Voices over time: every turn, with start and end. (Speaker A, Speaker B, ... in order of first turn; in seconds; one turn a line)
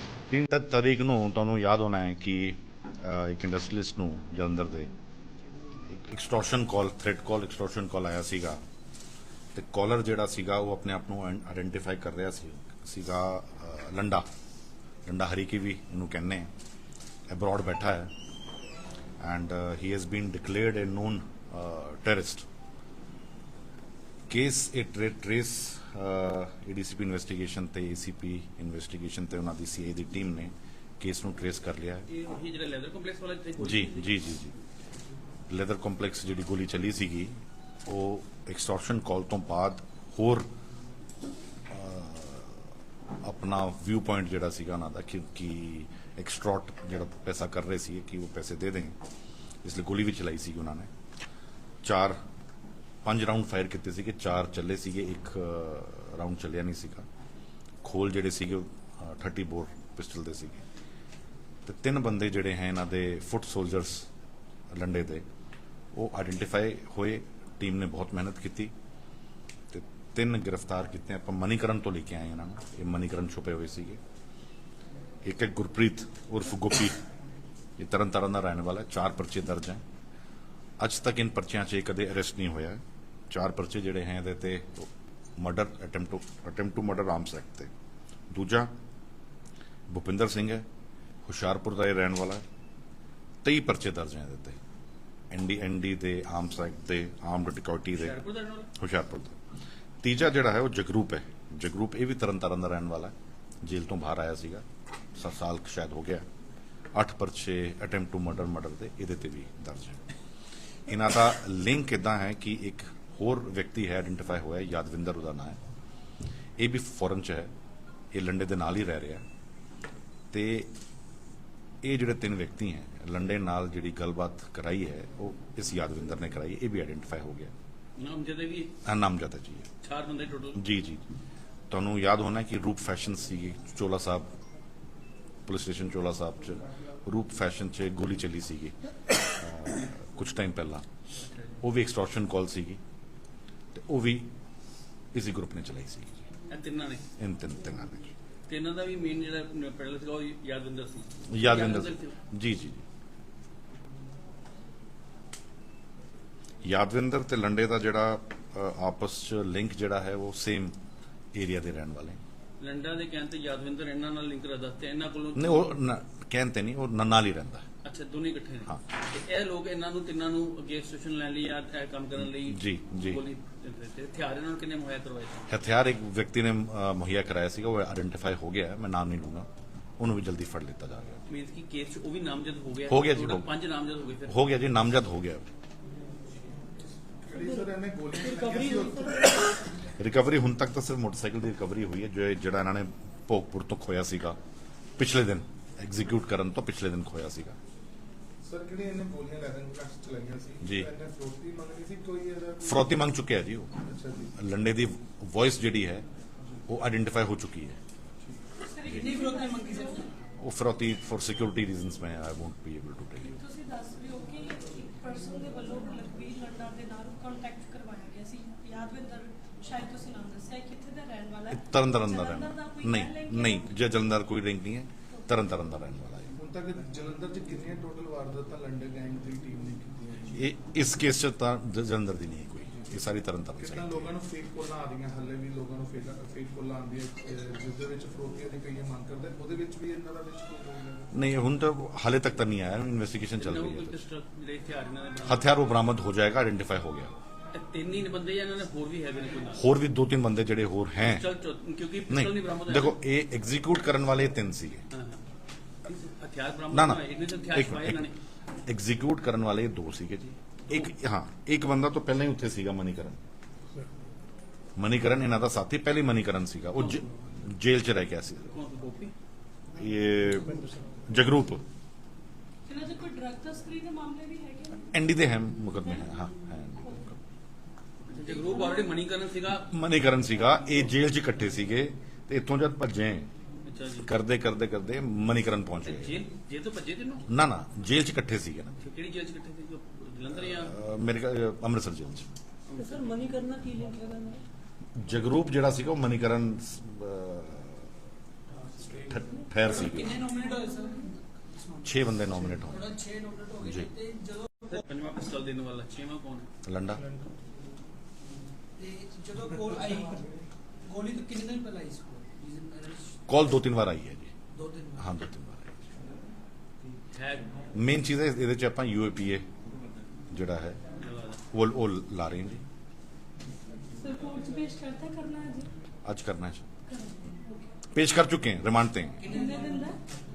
Speaker A: 0.3-4.9
Speaker A: 5.9-8.6
Speaker A: 9.6-14.3
Speaker A: 15.1-16.5
Speaker A: 17.3-18.1
Speaker A: 19.2-22.5
Speaker A: 24.3-32.1
Speaker B: 32.1-34.2
Speaker A: 33.6-34.5
Speaker A: 35.5-40.5
Speaker A: 41.7-42.7
Speaker A: 43.2-49.0
Speaker A: 49.6-50.9
Speaker A: 51.8-52.2
Speaker A: 53.0-57.1
Speaker A: 57.8-60.6
Speaker A: 61.6-64.1
Speaker A: 64.7-65.2
Speaker A: 65.9-68.7
Speaker A: 69.7-74.0
Speaker A: 75.2-77.0
Speaker A: 77.8-79.8
Speaker A: 80.8-87.7
Speaker A: 88.3-88.7
Speaker A: 89.9-90.7
Speaker A: 91.3-92.4
Speaker A: 93.4-94.6
Speaker A: 95.3-98.2
Speaker B: 97.9-98.7
Speaker A: 98.8-99.4
Speaker A: 100.0-106.3
Speaker A: 106.9-110.1
Speaker A: 110.9-115.6
Speaker A: 116.6-117.5
Speaker A: 118.1-119.2
Speaker A: 120.3-120.7
Speaker A: 121.8-127.5
Speaker B: 128.0-128.8
Speaker A: 128.8-129.7
Speaker B: 129.8-130.6
Speaker A: 130.6-131.0
Speaker A: 131.7-134.3
Speaker A: 135.5-140.8
Speaker B: 141.2-141.6
Speaker A: 141.6-142.8
Speaker A: 143.7-144.3
Speaker A: 145.1-146.3
Speaker B: 146.5-147.1
Speaker A: 147.2-148.1
Speaker B: 148.5-152.2
Speaker A: 151.3-152.8
Speaker A: 156.6-160.8
Speaker A: 161.3-162.2
Speaker B: 162.6-165.7
Speaker A: 165.3-167.7
Speaker B: 167.8-175.5
Speaker A: 172.3-173.2
Speaker A: 175.5-179.5
Speaker A: 180.0-181.2
Speaker B: 181.3-184.4
Speaker A: 182.8-183.5
Speaker A: 184.3-185.4
Speaker C: 187.1-189.4
Speaker D: 187.3-189.6
Speaker A: 189.8-194.4
Speaker A: 195.0-197.6
Speaker C: 198.4-203.1
Speaker A: 200.6-200.9
Speaker A: 202.6-203.7
Speaker C: 203.8-204.4
Speaker A: 204.4-206.1
Speaker A: 206.7-207.8
Speaker D: 208.6-210.1
Speaker A: 208.8-209.1
Speaker E: 208.9-210.1
Speaker A: 210.4-213.4
Speaker D: 213.3-223.7
Speaker A: 221.5-226.3
Speaker C: 226.3-230.5
Speaker A: 230.3-234.1
Speaker C: 233.6-241.1
Speaker A: 241.1-244.0
Speaker B: 243.4-245.7
Speaker A: 245.2-247.1
Speaker B: 247.5-249.7
Speaker A: 249.6-251.3
Speaker B: 251.0-253.0
Speaker A: 252.1-254.8
Speaker B: 254.9-255.2
Speaker B: 255.8-258.2
Speaker A: 256.7-258.1
Speaker A: 258.7-263.2
Speaker A: 264.8-268.6
Speaker B: 266.8-267.2
Speaker B: 268.5-269.1
Speaker A: 269.7-271.6
Speaker D: 272.7-274.9
Speaker A: 274.9-277.2
Speaker D: 275.8-276.1
Speaker B: 278.0-279.7
Speaker D: 278.2-278.9
Speaker A: 279.6-283.3
Speaker B: 283.6-284.1
Speaker A: 284.0-286.2
Speaker B: 285.8-287.3
Speaker A: 287.3-288.9
Speaker B: 288.8-290.9
Speaker A: 290.4-292.3
Speaker B: 292.7-293.4
Speaker D: 292.8-294.4
Speaker A: 294.9-297.9
Speaker C: 298.8-299.4
Speaker A: 298.9-300.2
Speaker E: 299.6-304.8
Speaker A: 301.8-302.9
Speaker A: 303.6-303.9
Speaker B: 304.6-306.5
Speaker A: 306.6-307.1
Speaker E: 308.8-310.3
Speaker E: 310.8-313.2
Speaker A: 313.3-314.3
Speaker E: 314.5-315.1
Speaker A: 314.9-315.9
Speaker B: 317.1-317.6
Speaker A: 317.7-319.5
Speaker A: 320.3-320.8
Speaker B: 320.9-321.4
Speaker A: 321.5-322.6
Speaker D: 324.0-325.7
Speaker A: 326.1-326.6
Speaker D: 326.9-327.7
Speaker A: 327.9-329.3
Speaker E: 329.2-330.0
Speaker D: 329.2-330.0